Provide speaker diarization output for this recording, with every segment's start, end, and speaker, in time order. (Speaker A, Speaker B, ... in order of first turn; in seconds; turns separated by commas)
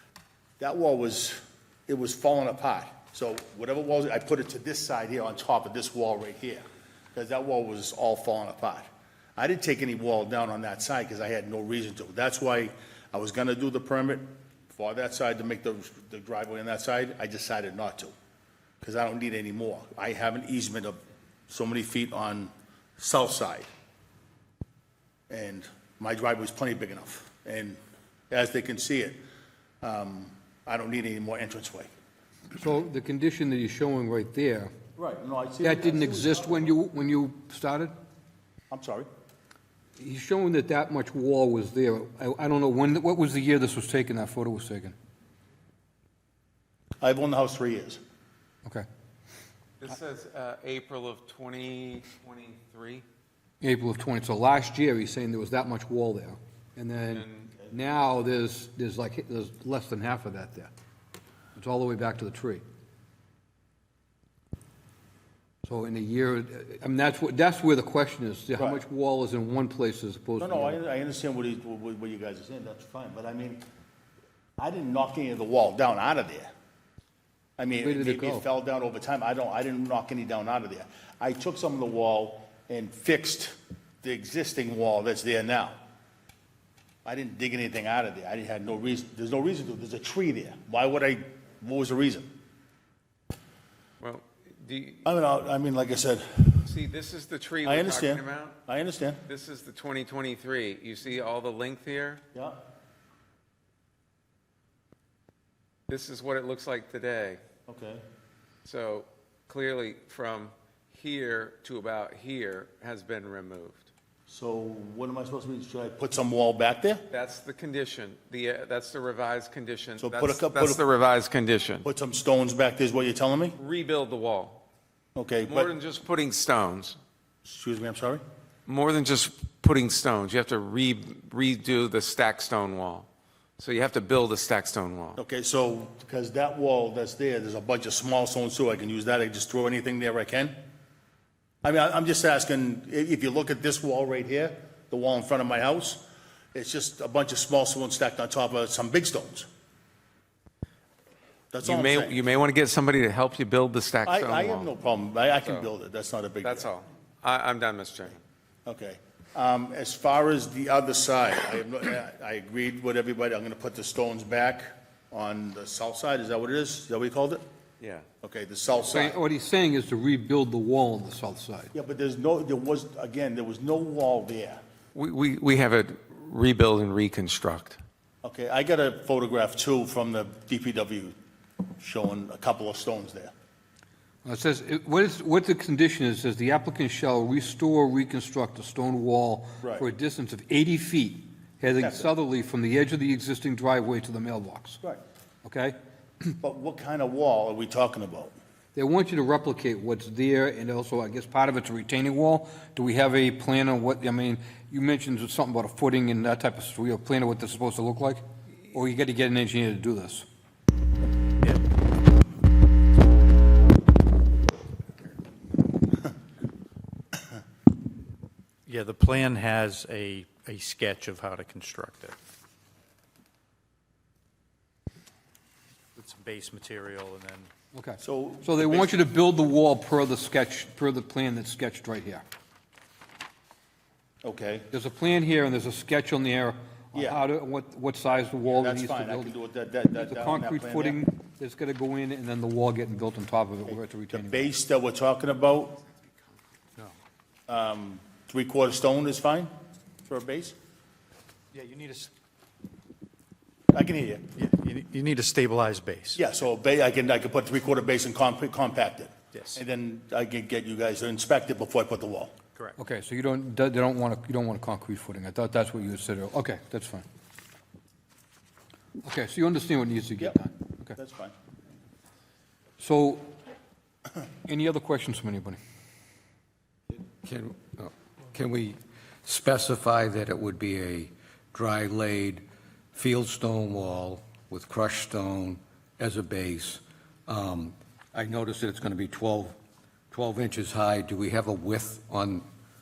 Speaker A: 0.6-6.6, Speaker A: 7.2-8.8, Speaker A: 9.4-18.1, Speaker A: 18.8-23.7, Speaker A: 25.3-27.8, Speaker A: 28.3-29.2, Speaker A: 29.8-31.9, Speaker B: 32.6-34.7, Speaker A: 35.0-36.8, Speaker B: 35.6-37.9, Speaker A: 38.7-39.1, Speaker B: 40.0-45.0, Speaker A: 47.0-48.0, Speaker C: 49.8-53.0, Speaker B: 53.6-60.7, Speaker C: 57.1-57.5, Speaker B: 61.6-62.6, Speaker B: 65.7-70.8, Speaker A: 68.6-68.8, Speaker A: 70.4-73.6, Speaker A: 74.6-76.5, Speaker A: 77.6-85.8, Speaker B: 77.8-78.5, Speaker A: 87.0-92.3, Speaker C: 94.0-95.1, Speaker A: 95.0-96.7, Speaker C: 96.6-98.6, Speaker A: 97.6-99.2, Speaker C: 99.2-102.2, Speaker A: 102.3-102.6, Speaker C: 105.9-107.4, Speaker A: 107.7-108.0, Speaker C: 108.7-113.9, Speaker A: 114.3-117.0, Speaker C: 117.1-121.9, Speaker A: 120.0-120.8, Speaker A: 121.8-123.6, Speaker C: 123.6-124.6, Speaker A: 125.2-125.7, Speaker C: 125.5-127.0, Speaker A: 127.5-128.2, Speaker C: 128.7-133.1, Speaker C: 133.6-135.2, Speaker A: 135.2-140.6, Speaker A: 141.6-146.0, Speaker A: 146.5-149.5, Speaker A: 151.5-152.2, Speaker C: 151.6-154.7, Speaker A: 154.1-156.7, Speaker C: 155.4-155.7, Speaker C: 156.4-158.2, Speaker A: 158.7-167.4, Speaker C: 167.8-168.1, Speaker A: 168.2-169.2, Speaker B: 168.9-171.7, Speaker A: 171.7-174.6, Speaker C: 174.9-177.8, Speaker A: 178.2-181.2, Speaker A: 181.8-183.3, Speaker B: 184.2-194.8, Speaker A: 189.6-189.9, Speaker A: 191.8-192.1, Speaker B: 195.4-195.8, Speaker A: 196.4-198.3, Speaker B: 198.8-210.3, Speaker D: 218.7-222.2, Speaker D: 226.0-227.5, Speaker B: 227.7-232.2, Speaker A: 228.0-229.0, Speaker A: 234.2-234.7, Speaker B: 234.7-239.3, Speaker A: 236.9-237.2, Speaker A: 238.4-241.0, Speaker B: 239.9-244.5, Speaker A: 243.7-245.8, Speaker A: 247.5-249.5, Speaker A: 250.1-250.6, Speaker D: 251.5-252.1, Speaker A: 253.7-254.3, Speaker D: 254.3-256.2, Speaker A: 256.2-262.3, Speaker B: 262.8-267.1, Speaker B: 269.0-271.0, Speaker A: 271.0-271.3, Speaker B: 272.8-273.3, Speaker B: 274.4-275.6, Speaker E: 276.9-289.6, Speaker E: 290.1-292.5